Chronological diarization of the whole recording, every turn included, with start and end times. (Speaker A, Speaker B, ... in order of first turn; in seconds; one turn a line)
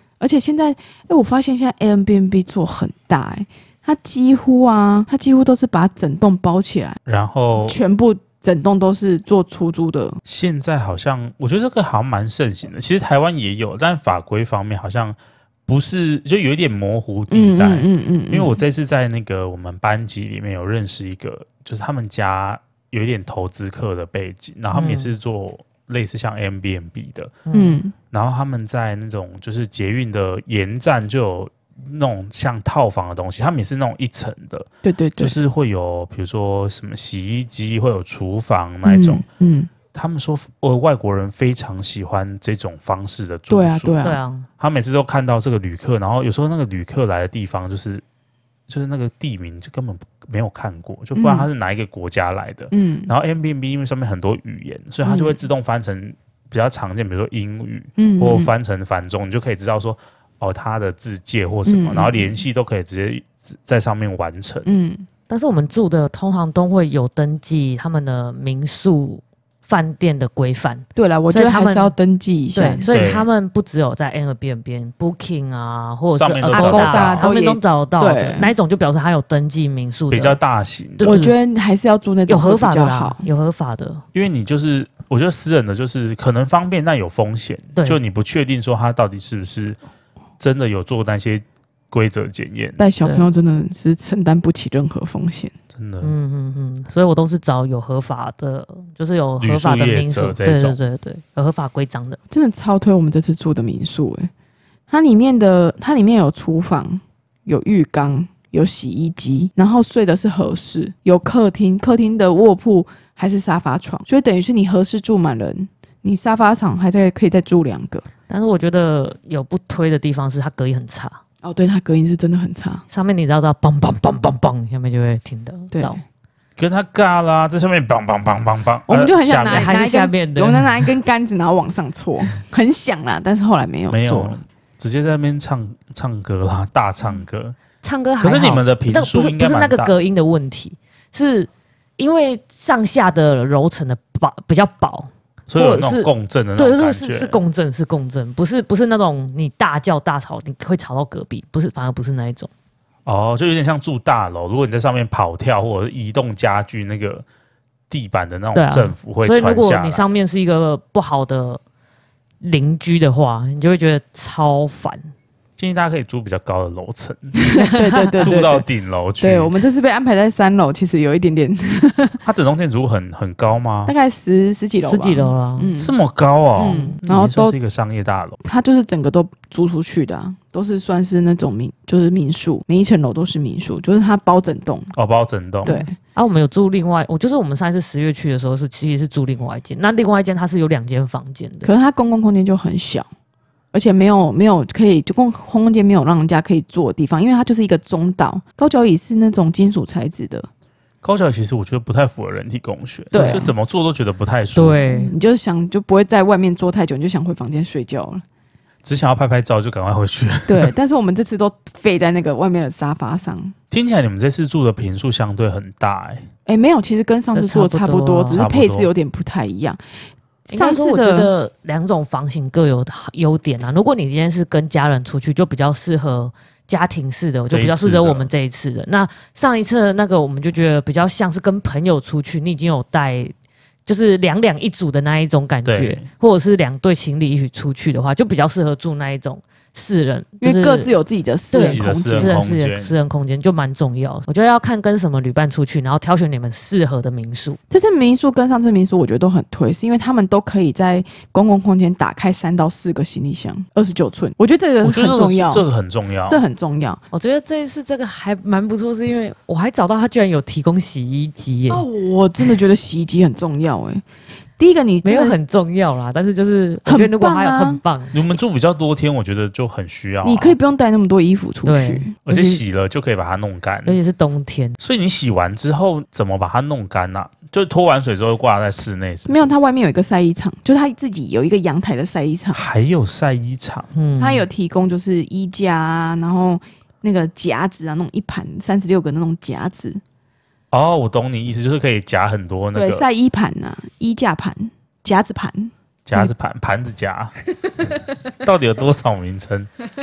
Speaker A: 0.2-7.0
Speaker B: 7.0-7.8
Speaker A: 7.6-10.2
Speaker B: 10.2-27.4
Speaker A: 17.3-18.6
Speaker C: 24.7-25.1
Speaker C: 27.4-27.8
Speaker A: 27.5-27.9
Speaker B: 28.1-39.2
Speaker A: 34.8-35.4
Speaker A: 38.8-39.7
Speaker B: 39.9-44.0
Speaker A: 43.5-44.2
Speaker C: 44.0-44.5
Speaker B: 44.6-48.0
Speaker B: 48.7-64.7
Speaker A: 51.1-51.5
Speaker A: 52.7-53.1
Speaker A: 55.0-55.4
Speaker A: 58.0-58.5
Speaker A: 61.6-62.3
Speaker A: 64.6-65.1
Speaker C: 65.3-71.9
Speaker A: 71.0-73.0
Speaker C: 72.5-80.4
Speaker B: 72.9-73.3
Speaker B: 76.1-77.3
Speaker A: 76.5-78.5
Speaker B: 80.1-81.2
Speaker C: 81.0-81.3
Speaker A: 81.0-83.2
Speaker C: 82.3-84.0
Speaker B: 84.1-89.8
Speaker B: 90.4-92.8
Speaker A: 92.8-95.5
Speaker B: 95.7-96.1
Speaker C: 96.0-102.2
Speaker B: 99.4-100.8
Speaker A: 102.3-104.3
Speaker A: 104.9-118.0
Speaker C: 118.3-121.2
Speaker A: 121.4-122.8
Speaker C: 122.9-126.0
Speaker A: 125.7-126.0
Speaker B: 126.6-129.7
Speaker A: 128.9-134.4
Speaker C: 129.5-130.9
Speaker B: 133.9-137.6
Speaker C: 137.8-152.5
Speaker B: 138.2-139.9
Speaker B: 145.5-147.4
Speaker B: 153.1-157.2
Speaker B: 157.9-160.0
Speaker C: 158.6-161.6
Speaker C: 162.4-165.1
Speaker B: 165.6-167.4
Speaker A: 167.4-168.6
Speaker C: 167.6-168.3
Speaker B: 168.2-169.5
Speaker A: 169.2-172.2
Speaker B: 172.2-173.9
Speaker A: 173.8-175.9
Speaker C: 174.8-175.7
Speaker B: 175.8-178.4
Speaker A: 176.6-177.6
Speaker C: 176.7-176.9
Speaker A: 178.4-184.9
Speaker B: 184.9-185.7
Speaker A: 185.6-185.9
Speaker C: 185.7-191.7
Speaker A: 191.6-193.1
Speaker A: 193.7-200.5
Speaker B: 201.0-204.9
Speaker A: 203.1-203.5
Speaker C: 203.1-203.4
Speaker C: 204.5-205.1
Speaker A: 204.9-208.2
Speaker B: 208.8-210.7
Speaker A: 210.5-213.5
Speaker B: 213.7-216.3
Speaker A: 216.4-219.8
Speaker C: 217.3-218.4
Speaker B: 218.3-218.9
Speaker A: 220.5-221.3
Speaker C: 220.5-233.3
Speaker B: 227.5-228.3
Speaker C: 233.8-240.9
Speaker B: 235.6-236.1
Speaker A: 240.4-242.4
Speaker C: 241.5-247.6
Speaker B: 241.5-242.9
Speaker A: 247.7-255.6
Speaker B: 254.8-256.4
Speaker A: 256.3-257.0
Speaker C: 257.1-261.8
Speaker A: 261.7-264.0
Speaker A: 264.6-265.4
Speaker C: 265.0-268.1
Speaker A: 266.9-267.8
Speaker B: 268.1-270.6
Speaker A: 270.2-272.6
Speaker C: 271.6-272.1
Speaker B: 272.2-274.0
Speaker C: 273.9-274.8
Speaker B: 274.8-279.5
Speaker A: 279.3-282.6
Speaker B: 282.5-283.9
Speaker C: 283.9-284.5
Speaker A: 284.2-290.0
Speaker B: 290.7-293.0
Speaker A: 292.7-295.7
Speaker B: 296.0-297.3
Speaker B: 298.3-299.7